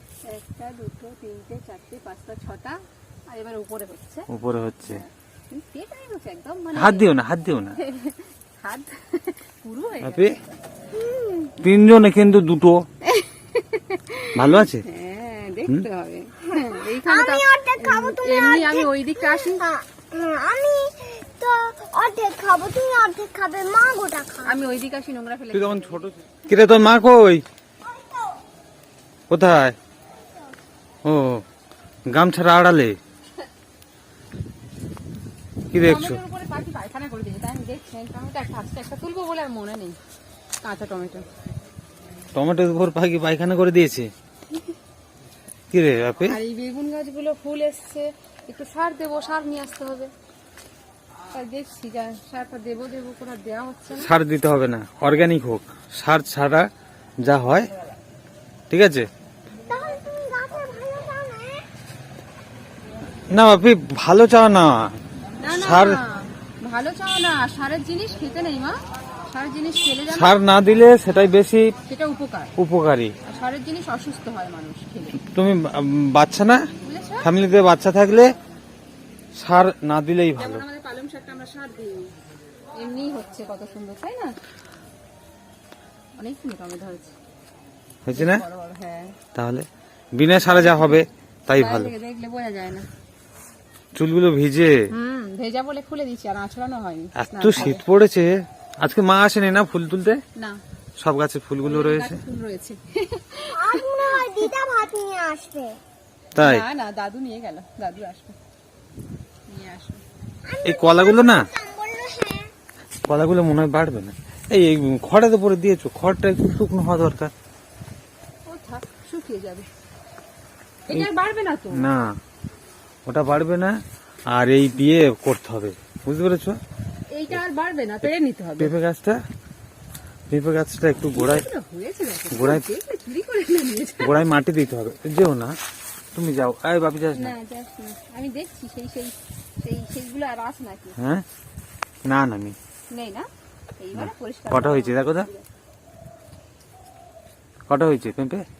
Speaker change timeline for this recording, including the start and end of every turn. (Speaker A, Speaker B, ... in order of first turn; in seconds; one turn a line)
Speaker A: 0.2-4.3
Speaker B: 4.3-5.0
Speaker A: 4.9-7.1
Speaker B: 6.8-7.8
Speaker A: 7.8-10.3
Speaker B: 10.0-10.4
Speaker C: 10.9-11.5
Speaker B: 11.6-12.8
Speaker A: 13.0-19.7
Speaker B: 14.3-14.8
Speaker C: 16.4-24.6
Speaker A: 24.4-26.0
Speaker B: 25.5-27.4
Speaker C: 27.9-28.4
Speaker B: 29.3-29.8
Speaker B: 31.1-31.4
Speaker B: 32.1-33.0
Speaker B: 35.7-36.2
Speaker A: 35.7-40.0
Speaker A: 40.6-41.2
Speaker B: 42.3-44.1
Speaker B: 45.7-46.4
Speaker A: 46.2-50.1
Speaker A: 51.3-54.1
Speaker B: 54.0-56.7
Speaker B: 57.2-57.7
Speaker B: 58.7-59.1
Speaker C: 59.7-61.7
Speaker B: 63.3-65.0
Speaker A: 65.4-70.4
Speaker B: 65.5-66.0
Speaker B: 70.1-71.8
Speaker A: 71.8-72.5
Speaker B: 72.6-73.1
Speaker A: 73.2-75.2
Speaker B: 75.2-76.7
Speaker A: 76.8-77.3
Speaker B: 77.2-78.3
Speaker B: 79.3-80.7
Speaker A: 80.4-82.2
Speaker A: 82.7-84.4
Speaker A: 86.2-87.1
Speaker B: 88.1-88.4
Speaker A: 88.1-89.2
Speaker B: 89.3-91.9
Speaker A: 90.5-91.0
Speaker A: 91.5-92.9
Speaker B: 94.0-94.9
Speaker A: 94.9-97.8
Speaker B: 97.2-100.2
Speaker B: 101.0-102.2
Speaker A: 101.6-104.5
Speaker C: 103.5-105.8
Speaker B: 106.4-106.7
Speaker A: 106.4-108.4
Speaker A: 109.5-110.0
Speaker C: 110.5-112.5
Speaker B: 110.6-111.5
Speaker B: 113.1-117.3
Speaker A: 118.5-119.7
Speaker A: 120.9-121.9
Speaker B: 121.7-122.2
Speaker B: 123.1-126.6
Speaker A: 127.1-128.7
Speaker B: 128.6-129.2
Speaker B: 130.3-131.5
Speaker A: 131.1-134.2
Speaker B: 132.3-132.6
Speaker B: 134.0-135.6
Speaker B: 136.1-137.3
Speaker A: 137.1-141.0
Speaker B: 141.0-141.2
Speaker B: 142.0-142.6
Speaker A: 142.9-143.3
Speaker A: 143.8-145.5
Speaker B: 143.9-145.3
Speaker B: 147.7-148.5